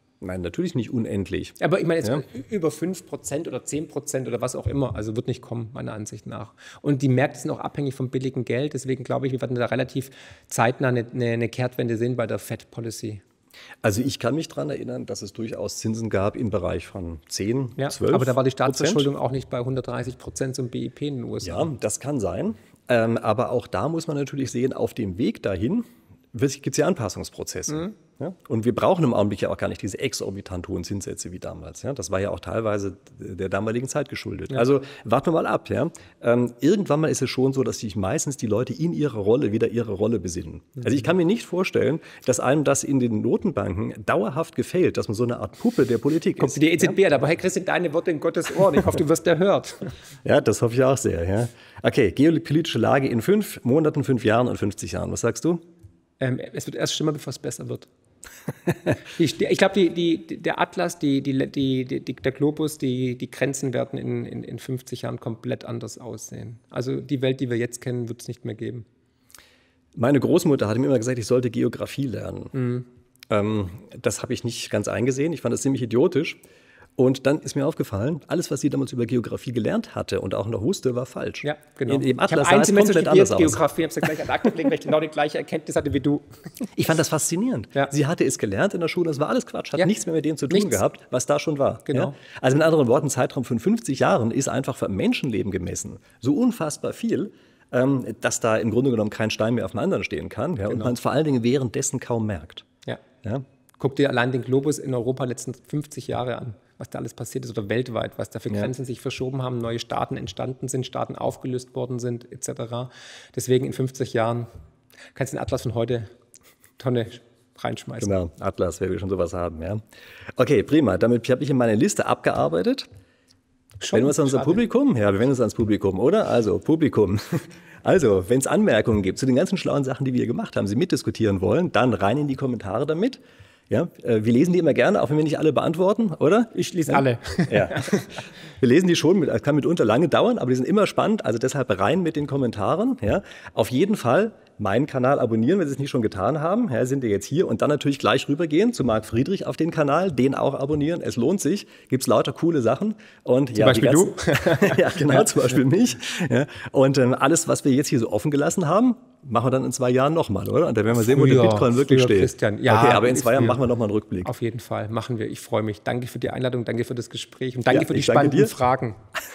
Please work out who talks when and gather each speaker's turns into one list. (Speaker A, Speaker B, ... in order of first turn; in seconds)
Speaker A: 0.2-2.2, 13.8-19.1, 21.4-47.0, 50.2-55.6, 70.0-72.5, 73.3-76.4, 77.0-83.6, 86.8-102.7, 118.0-119.8, 120.4-122.9, 123.9-164.3, 167.7-168.5
Speaker B: 1.6-13.2, 17.8-21.7, 46.4-49.9, 56.2-57.9, 58.9-68.9, 72.5-72.9, 81.4-86.7, 90.5-90.8, 91.9-92.1, 103.8-114.5, 115.2-116.1, 116.8-118.1, 123.8-124.6, 136.5-138.2, 153.6-155.5, 160.9-163.6, 164.2-169.0